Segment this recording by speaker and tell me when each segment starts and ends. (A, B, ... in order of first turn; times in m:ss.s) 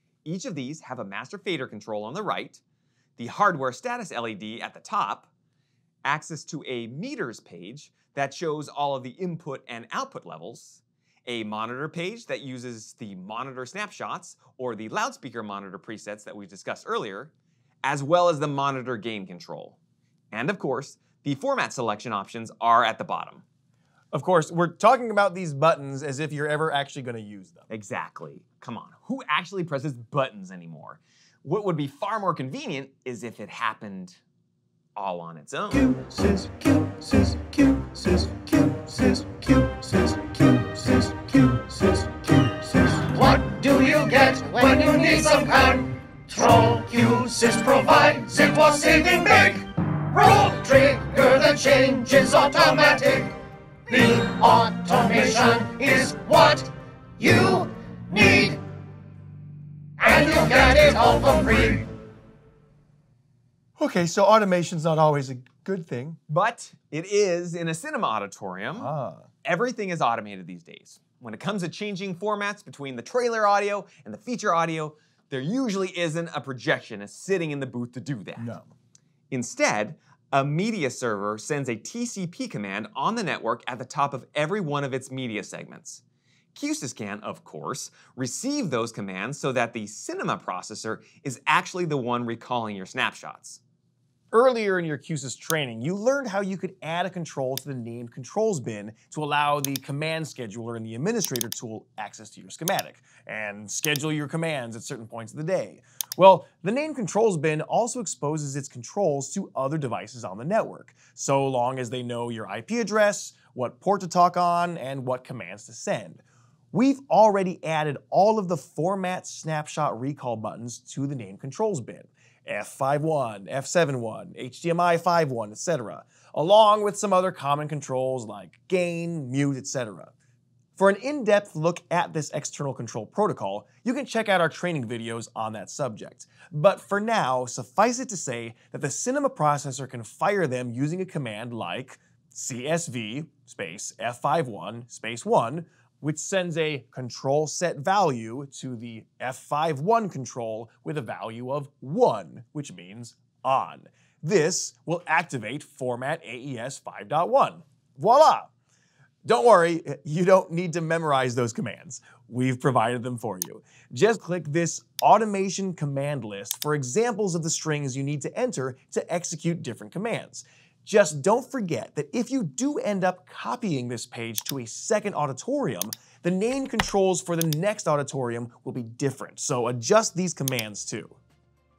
0:00.2-0:02.6 A
0:03.2-0:05.3 A
0:06.0-0:17.3 A
0:17.8-0:19.8 A
0:20.3-0:23.4 A
0:24.1-0:27.6 B
0:27.7-0:34.2 A
0:35.0-0:35.9 A
0:35.8-0:43.1 B
0:43.1-0:58.6 C
1:00.0-1:01.9 C
1:03.8-1:06.2 B
1:06.3-1:08.9 A
1:08.7-1:09.3 B
1:09.4-1:18.6 A
1:18.4-1:18.7 B
1:19.3-1:26.0 A
1:26.5-1:33.6 A
1:34.3-2:10.1 B
2:10.8-2:38.5 B
2:39.2-3:01.2 B